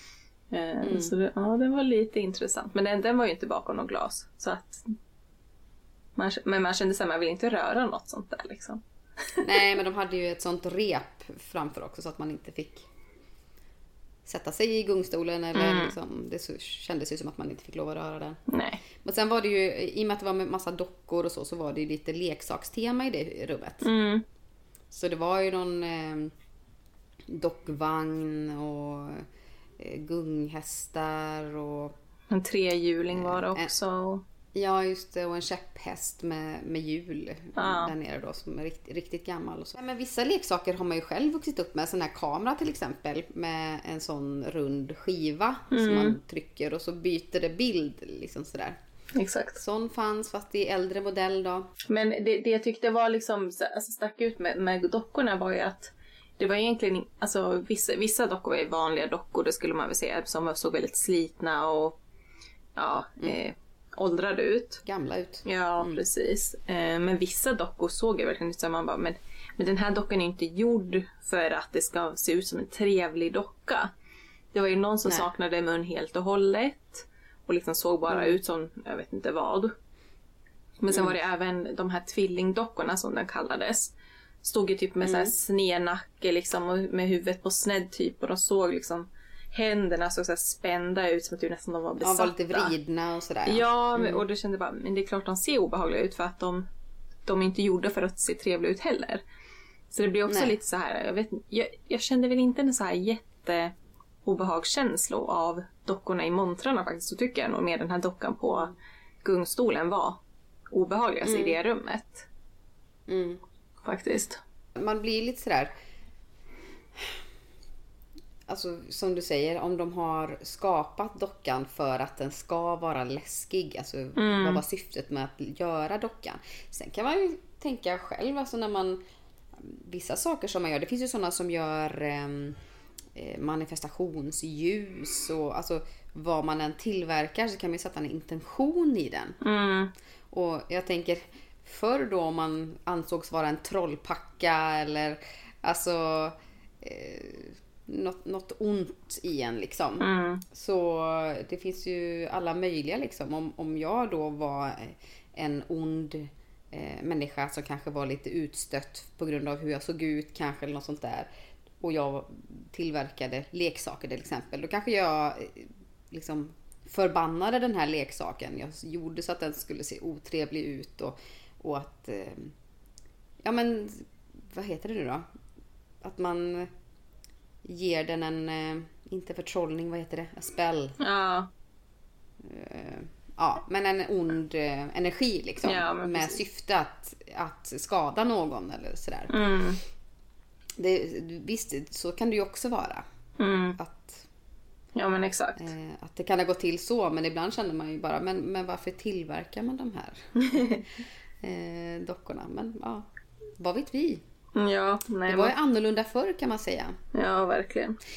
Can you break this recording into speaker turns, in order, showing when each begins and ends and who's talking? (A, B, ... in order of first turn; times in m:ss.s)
0:00.5-0:04.9 A
0:00.8-0:01.1 B
0:06.2-0:08.8 A
0:09.4-0:12.8 B
0:14.2-0:18.4 B
0:15.5-0:15.9 A
0:18.5-0:18.8 A
0:19.0-0:23.9 B
0:23.8-0:24.2 A
0:24.9-0:26.3 B
0:27.3-0:29.3 B
0:29.8-0:31.9 B
0:32.3-0:34.2 A
0:33.1-0:33.7 B
0:34.5-0:48.8 B
0:37.6-0:37.9 A
0:45.7-0:46.2 A
0:49.1-0:49.6 A
0:49.6-0:51.7 B
0:51.9-1:02.0 A
1:02.8-1:04.8 A
1:04.8-1:06.0 B
1:05.4-1:13.9 A
1:14.5-1:19.7 A
1:18.1-1:18.4 B
1:20.8-1:32.7 A
1:20.9-1:21.1 B
1:25.0-1:25.3 B
1:32.0-1:34.2 B
1:33.4-1:36.6 A
1:37.2-1:39.2 A
1:39.9-1:43.7 A
1:40.3-1:40.5 B
1:44.2-1:50.2 A
1:50.7-1:52.3 A
1:51.2-1:51.6 B
1:53.1-1:53.4 B
1:53.8-1:54.4 A
1:54.7-1:55.7 B
1:58.5-2:09.0 B
2:04.2-2:04.6 A
2:09.5-2:12.6 B
2:13.1-2:19.4 B
2:19.4-2:19.9 A
2:20.3-2:41.3 B
2:30.0-2:30.4 A
2:41.8-2:52.5 B
2:53.4-2:55.2 B
2:56.0-2:56.7 B
2:57.6-3:01.0 B
3:01.0-3:01.5 A
3:02.4-3:09.3 B
3:05.6-3:06.4 A
3:09.3-3:09.8 A
3:10.8-3:13.0 B
3:13.4-3:13.8 A
3:13.8-3:14.3 B
3:14.9-3:15.7 A
3:15.6-3:20.6 B
3:20.4-3:20.8 A
3:21.4-3:23.1 B
3:23.6-3:24.2 B
3:24.5-3:25.5 A
3:25.2-3:27.0 B
3:27.1-3:28.0 A